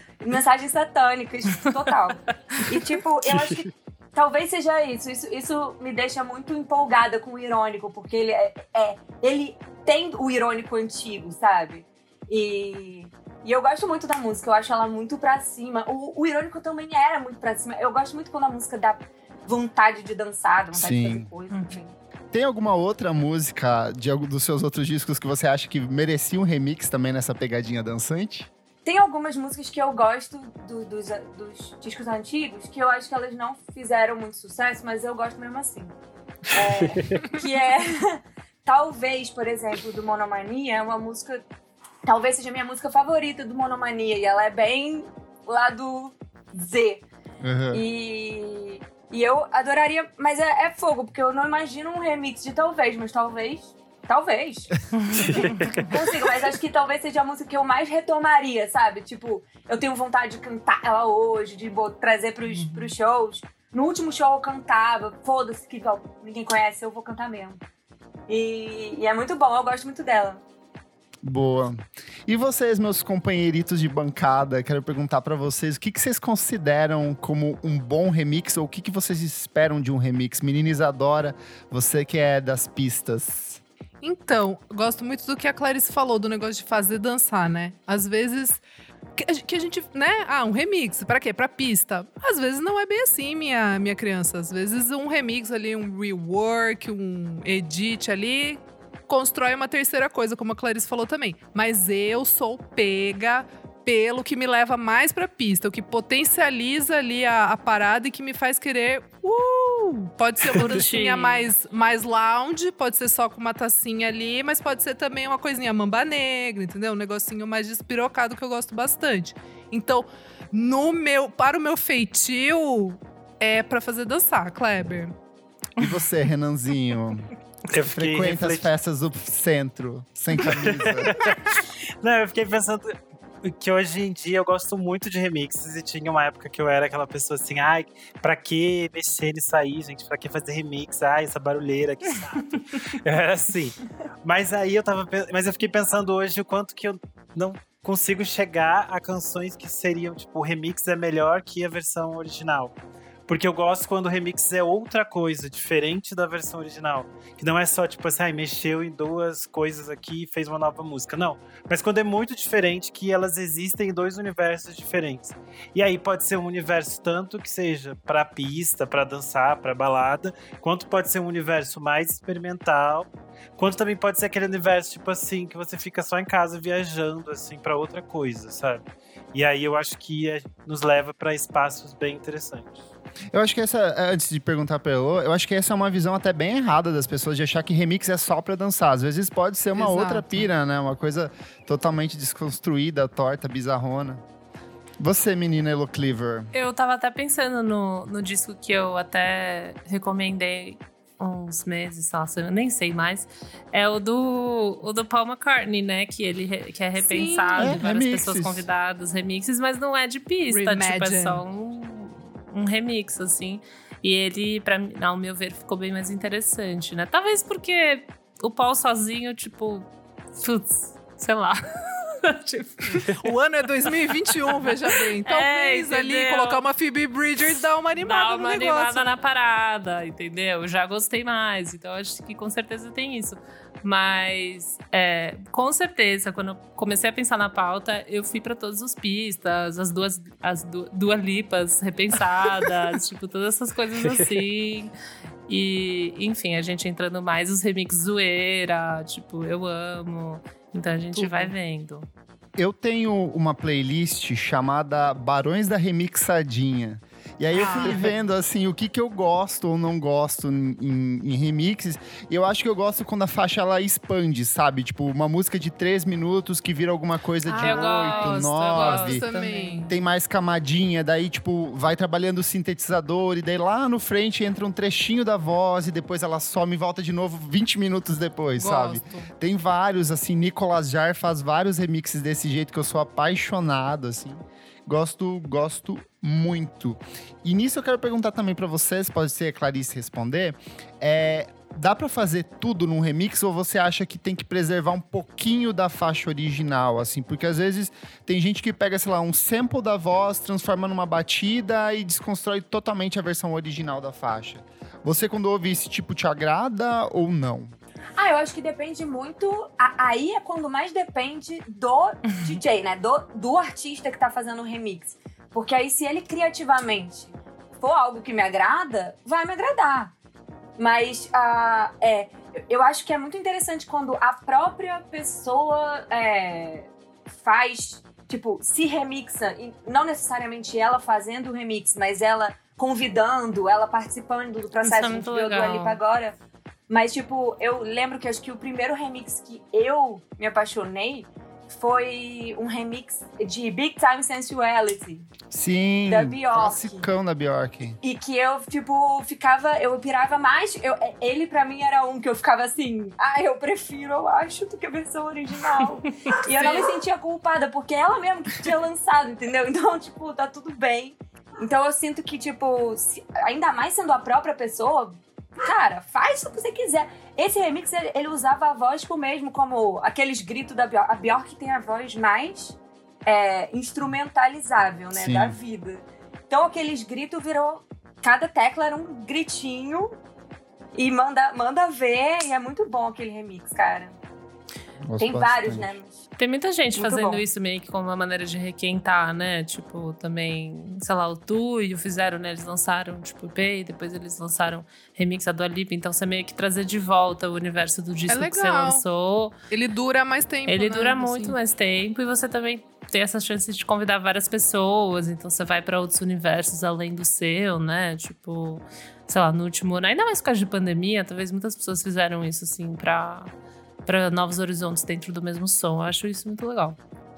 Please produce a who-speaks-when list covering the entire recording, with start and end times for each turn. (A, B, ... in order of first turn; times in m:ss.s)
0:00.2-0:22.0 A
0:20.8-0:21.3 B
0:22.3-0:28.5 B
0:28.8-0:36.0 A
0:36.5-0:41.4 A
0:36.8-0:37.2 C
0:42.0-0:47.0 A
0:47.4-0:47.8 B
0:47.7-0:54.7 A
0:55.0-0:55.4 D
0:55.1-0:55.9 C
0:55.4-1:07.6 A
1:08.3-1:10.4 A
1:11.2-1:23.6 B
1:24.0-1:28.6 E
1:29.2-2:05.2 E
1:50.5-1:51.5 D
2:05.8-2:11.2 B
2:07.7-2:08.7 C
2:10.4-2:32.7 C
2:33.3-2:58.8 C
2:59.3-3:02.8 C
3:03.3-3:14.2 B
3:09.7-3:10.5 E
3:15.0-3:16.5 B
3:16.5-3:43.3 D
3:27.0-3:27.8 E
3:27.6-3:28.7 B
3:30.5-3:31.4 E
3:43.1-3:49.0 E
3:44.3-3:46.6 D
3:48.0-4:04.9 D
4:05.5-4:12.1 D
4:11.1-4:11.5 E
4:12.6-4:29.3 B
4:17.5-4:18.1 E
4:27.4-4:29.9 E
4:27.6-4:29.9 D
4:29.9-5:07.7 B
4:38.6-4:39.3 E
5:08.2-5:20.1 A
5:20.8-5:36.4 A
5:34.8-5:36.0 D
5:36.9-5:45.3 A
5:45.5-5:48.0 B
5:46.1-5:47.1 A
5:48.0-6:20.2 A
6:15.1-6:15.6 B
6:21.0-6:24.2 A
6:25.0-6:25.9 B
6:25.2-6:26.2 A
6:26.4-6:39.5 D
6:27.0-6:27.4 A
6:38.3-6:39.0 E
6:39.7-6:41.6 E
6:40.7-6:53.5 D
6:54.1-6:57.0 D